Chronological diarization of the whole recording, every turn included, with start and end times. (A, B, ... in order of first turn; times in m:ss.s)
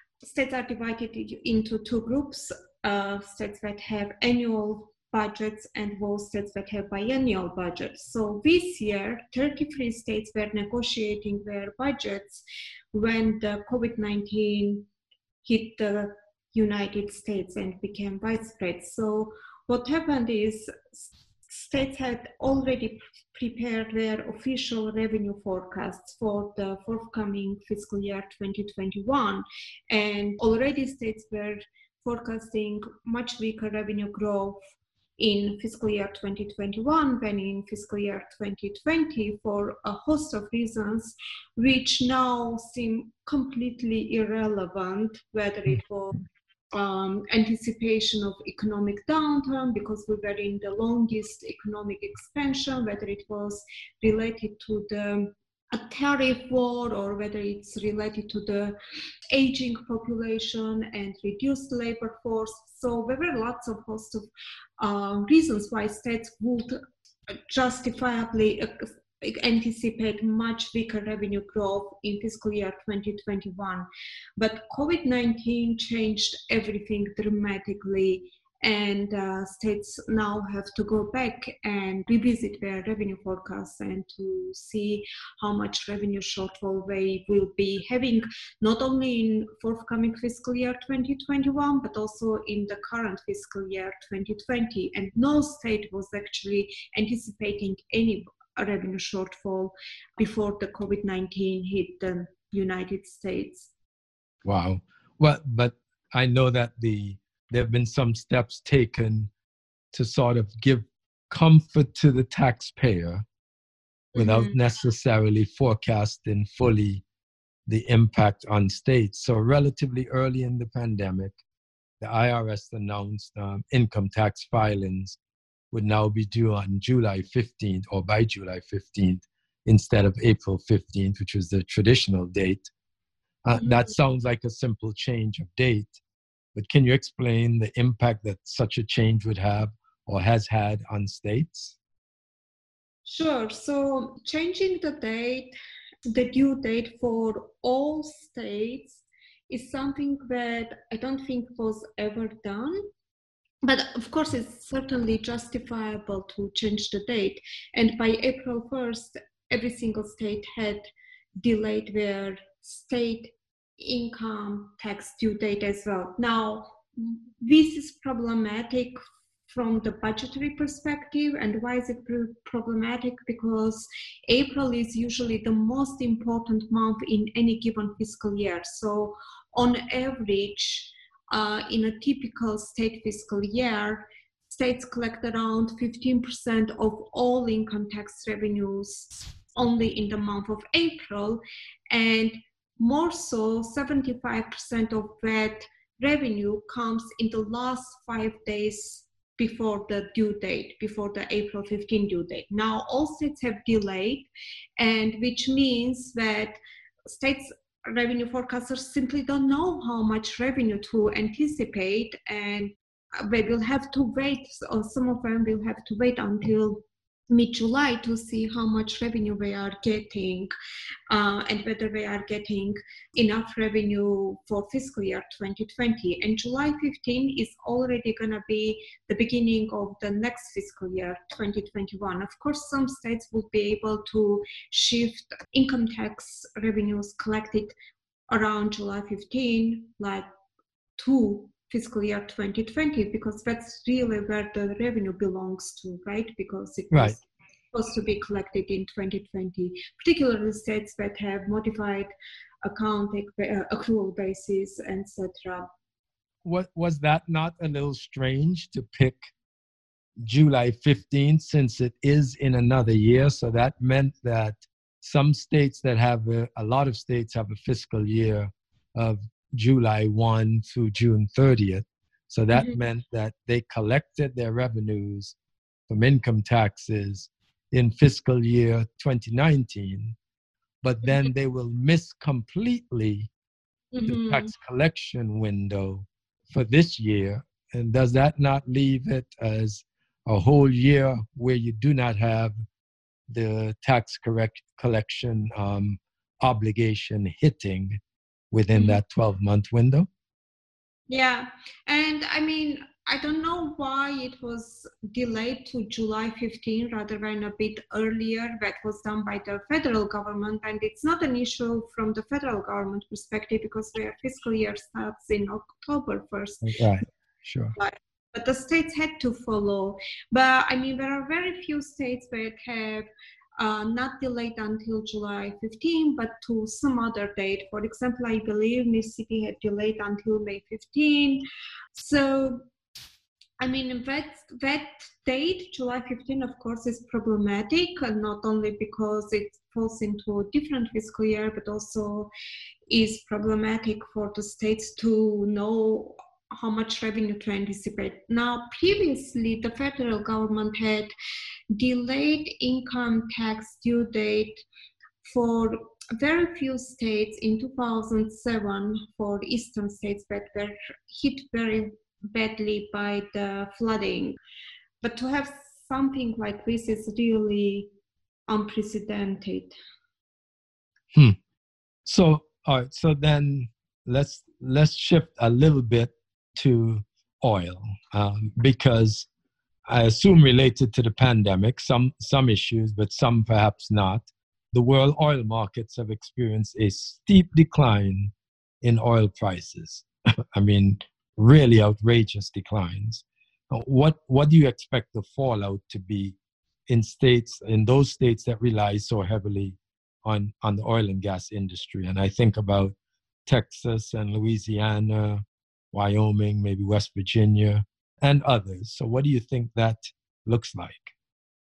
0:00.2-0:14.9 A
0:15.4-0:34.6 A
0:35.2-0:46.2 A
0:46.7-0:58.8 A
0:59.3-1:04.3 A
1:04.8-1:06.8 A
1:07.5-1:13.8 A
1:14.4-1:43.7 A
1:44.4-1:49.3 B
1:49.9-1:53.2 B
1:54.1-1:57.0 B
1:54.2-1:54.5 A
1:57.7-2:01.3 B
2:02.0-2:05.2 B
2:05.7-2:12.7 B
2:13.4-2:16.0 B
2:13.6-2:13.8 A
2:16.5-2:21.7 B
2:23.0-2:25.5 A
2:26.1-2:32.8 A
2:33.6-2:40.9 A
2:41.4-2:49.0 A
2:49.5-3:40.5 A
3:41.1-3:57.7 A
3:58.3-4:00.3 A
4:01.0-4:07.2 A
4:06.9-4:07.2 B
4:07.7-4:12.1 A
4:12.6-4:15.7 A
4:16.4-4:19.2 B
4:20.2-4:35.3 B
4:32.5-4:32.8 A
4:35.9-4:40.1 B
4:40.8-4:43.3 B
4:43.9-4:44.5 A
4:44.0-4:52.5 B
4:53.3-4:58.0 B
4:58.5-5:00.1 B
4:58.7-4:59.0 A
5:01.1-5:16.7 A
5:16.6-5:17.7 B
5:17.8-5:23.0 A
5:23.6-5:32.6 A
5:33.6-5:42.3 A
5:42.9-5:51.1 A
5:51.7-5:54.6 A
5:55.2-6:04.4 A
6:05.0-6:07.9 A
6:08.5-6:09.7 A
6:12.0-6:19.3 B
6:19.9-6:36.4 B
6:36.9-6:42.9 B
6:43.4-6:51.1 B